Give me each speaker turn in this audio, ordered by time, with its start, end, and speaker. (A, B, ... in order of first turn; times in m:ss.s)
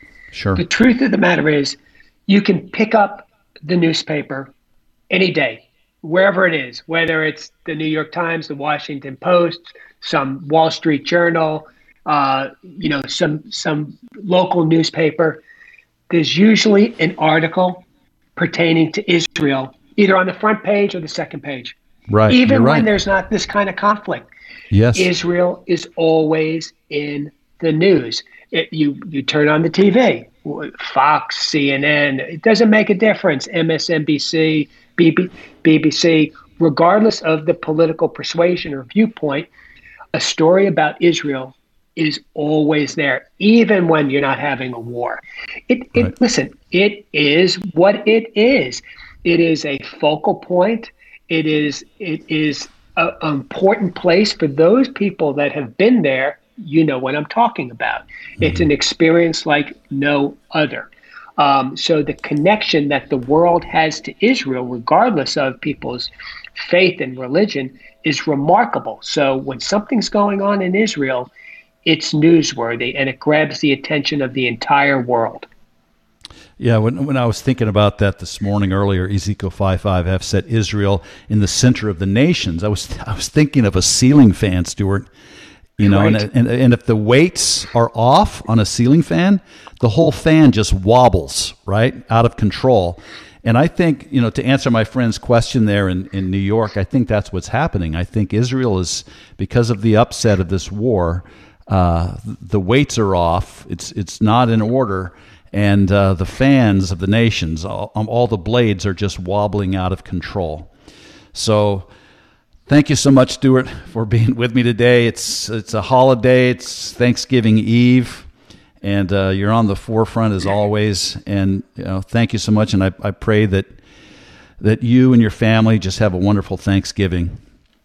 0:00.3-0:00.6 A
0:00.6-0:04.5 B
0:05.1-0:15.4 B
0:16.1-0:17.9 B
0:18.4-0:21.8 B
0:22.1-0:22.9 A
0:22.3-0:24.3 B
0:24.7-0:25.1 A
0:25.0-0:39.5 B
0:40.1-1:11.3 B
1:11.8-1:15.5 B
1:16.6-1:25.1 A
1:25.8-1:50.7 A
1:25.8-1:26.2 B
1:51.3-1:51.9 A
1:52.7-1:58.3 A
1:58.8-2:03.7 A
2:04.6-2:07.4 A